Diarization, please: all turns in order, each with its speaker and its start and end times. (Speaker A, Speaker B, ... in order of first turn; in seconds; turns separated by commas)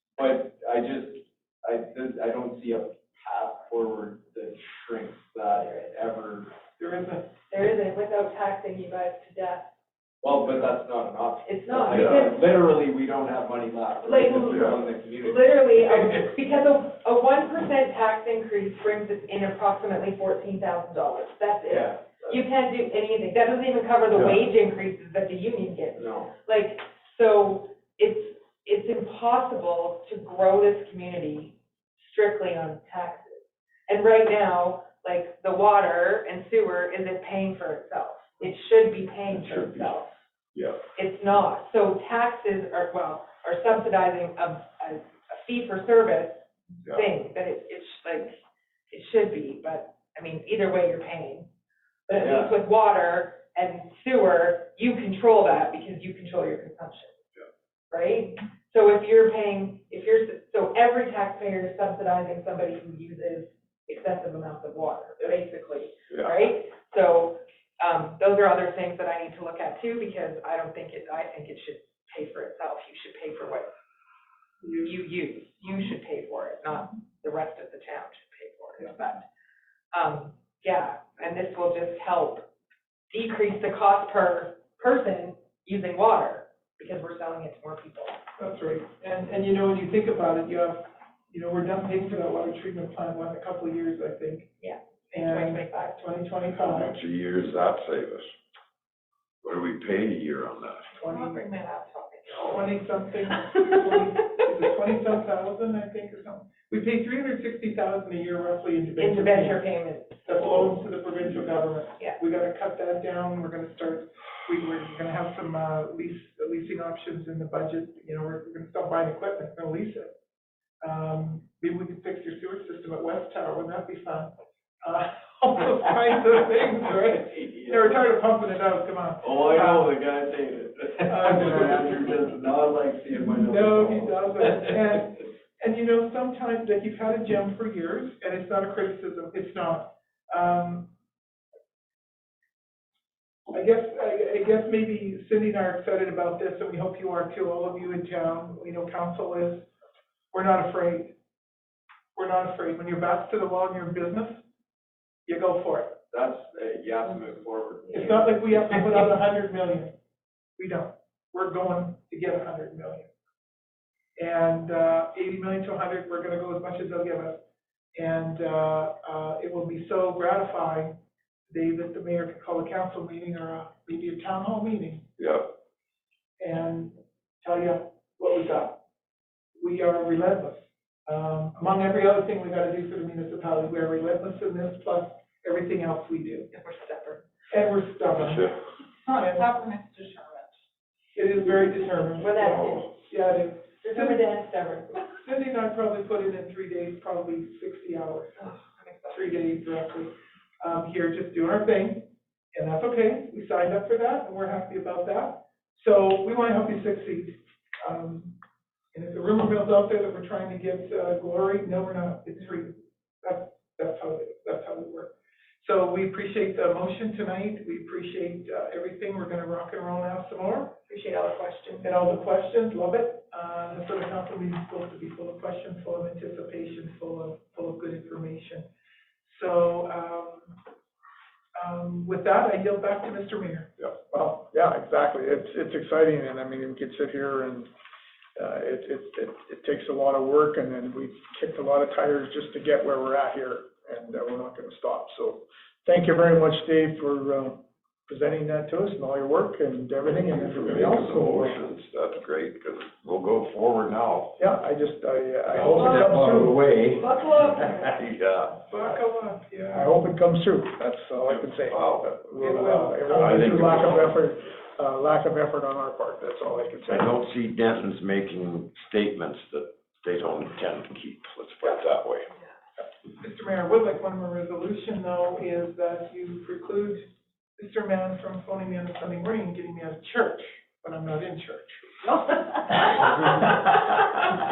Speaker A: 0.2-6.5, Speaker B: 6.8-7.2, Speaker C: 7.5-9.7, Speaker A: 10.2-16.3, Speaker C: 11.4-12.4, Speaker D: 11.8-12.3, Speaker C: 14.0-40.1, Speaker D: 14.4-14.7, Speaker A: 21.6-22.4, Speaker A: 25.9-26.3, Speaker D: 39.3-39.9, Speaker D: 40.5-40.8, Speaker C: 41.0-48.4, Speaker C: 48.9-51.5, Speaker C: 52.1-57.1, Speaker A: 52.1-52.5, Speaker C: 57.9-73.7, Speaker B: 74.6-74.9, Speaker C: 74.8-79.2, Speaker C: 79.9-82.5, Speaker C: 83.1-88.2, Speaker B: 88.4-94.5, Speaker C: 94.6-96.0, Speaker B: 95.1-96.9, Speaker D: 96.6-98.3, Speaker D: 99.4-100.9, Speaker B: 101.0-101.5, Speaker C: 101.0-102.8, Speaker B: 102.4-109.6, Speaker C: 109.0-110.5, Speaker B: 110.2-120.1, Speaker B: 120.8-130.0, Speaker A: 127.3-128.0, Speaker A: 129.2-134.5, Speaker B: 131.0-132.0, Speaker B: 133.4-140.9, Speaker B: 143.5-149.7, Speaker B: 150.3-151.1, Speaker B: 152.1-154.4, Speaker B: 155.2-156.0, Speaker A: 156.1-159.0, Speaker B: 157.9-159.9, Speaker B: 160.6-163.1, Speaker B: 164.2-167.4, Speaker B: 167.9-171.0, Speaker B: 171.5-175.1, Speaker D: 175.2-175.4, Speaker B: 176.4-178.8, Speaker B: 179.6-186.5, Speaker C: 186.5-187.2, Speaker B: 187.5-189.5, Speaker D: 188.2-188.5, Speaker C: 189.1-190.5, Speaker B: 191.1-194.2, Speaker C: 192.1-193.0, Speaker C: 193.8-195.0, Speaker B: 195.2-198.4, Speaker C: 198.4-199.3, Speaker B: 199.1-208.3, Speaker B: 208.9-220.8, Speaker C: 220.9-221.9, Speaker B: 221.8-228.7, Speaker B: 229.2-230.6, Speaker B: 231.6-233.7, Speaker E: 234.1-237.7, Speaker E: 238.3-251.6, Speaker D: 250.1-254.3, Speaker E: 254.4-256.6, Speaker D: 255.5-257.0, Speaker C: 255.7-256.1, Speaker C: 257.0-258.0, Speaker D: 257.9-258.6, Speaker B: 258.6-259.9, Speaker E: 259.7-267.1, Speaker D: 261.3-262.0, Speaker B: 262.4-264.0, Speaker D: 262.7-264.2, Speaker D: 266.9-272.2, Speaker B: 273.2-277.1, Speaker B: 277.6-282.0